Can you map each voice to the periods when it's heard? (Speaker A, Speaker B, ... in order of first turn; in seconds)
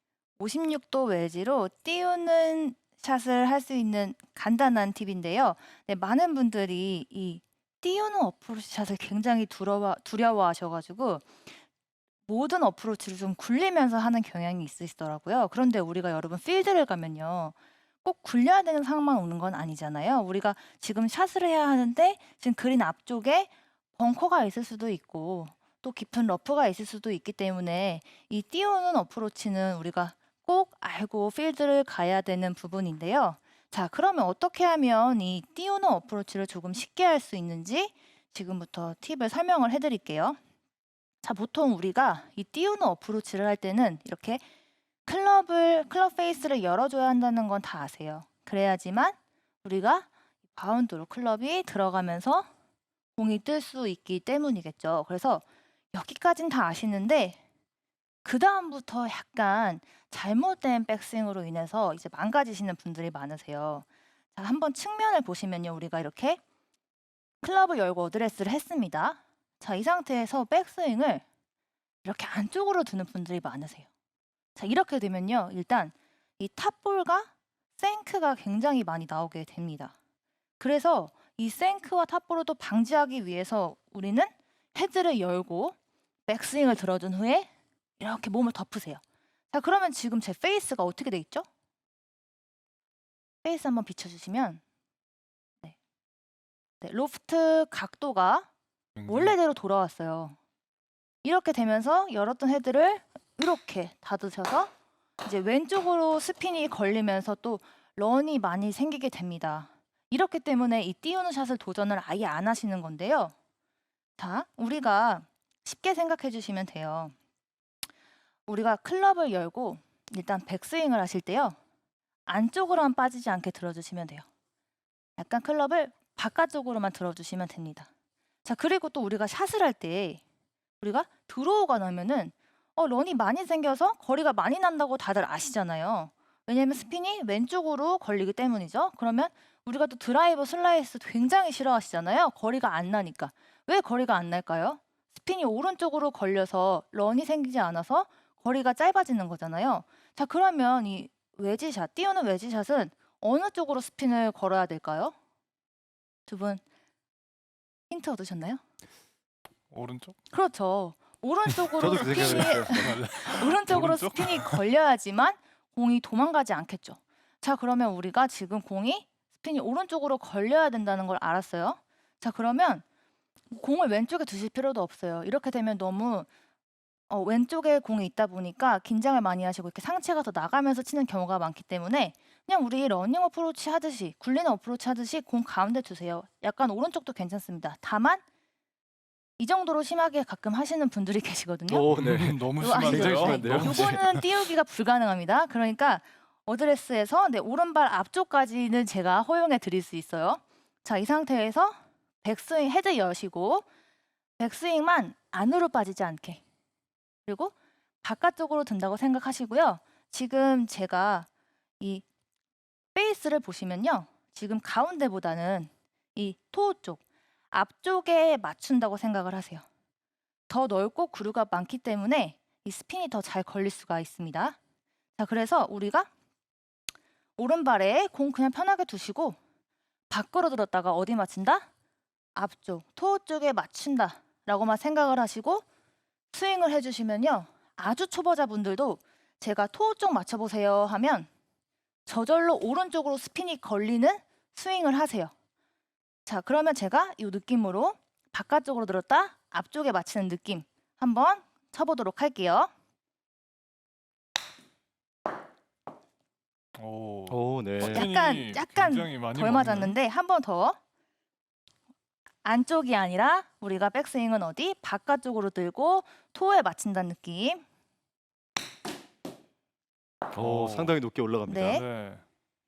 Speaker A: 0.4-11.3, 12.3-40.4, 41.2-44.4, 45.1-52.5, 53.2-55.4, 55.9-57.4, 58.2-66.4, 67.4-71.2, 72.0-73.9, 74.6-79.9, 80.6-85.8, 86.3-89.0, 89.5-91.5, 93.4-94.6, 96.8-98.5, 99.1-100.4, 101.2-113.3, 114.2-117.1, 118.5-121.6, 122.3-124.2, 125.2-127.9, 128.4-130.2, 130.8-155.1, 156.3-156.6, 157.9-158.6, 160.3-172.8, 173.5-176.3, 177.1-188.2, 189.4-191.9, 192.6-203.7, 204.4-206.4, 207.3-211.3, 211.8-212.1, 212.9-219.7, 220.5-224.6, 225.2-226.1, 227.4-229.4, 230.1-231.7, 232.4-235.7, 236.3-241.3, 242.1-245.3, 246.3-252.7, 257.8-260.8, 262.4-267.6, 271.5-271.8
Speaker B: 99.0-99.4, 159.7-160.2, 162.0-164.6, 191.9-194.2, 256.8-260.0, 270.4-271.0, 271.6-272.2
Speaker C: 161.8-163.0, 191.7-194.0, 257.3-258.1, 270.3-271.8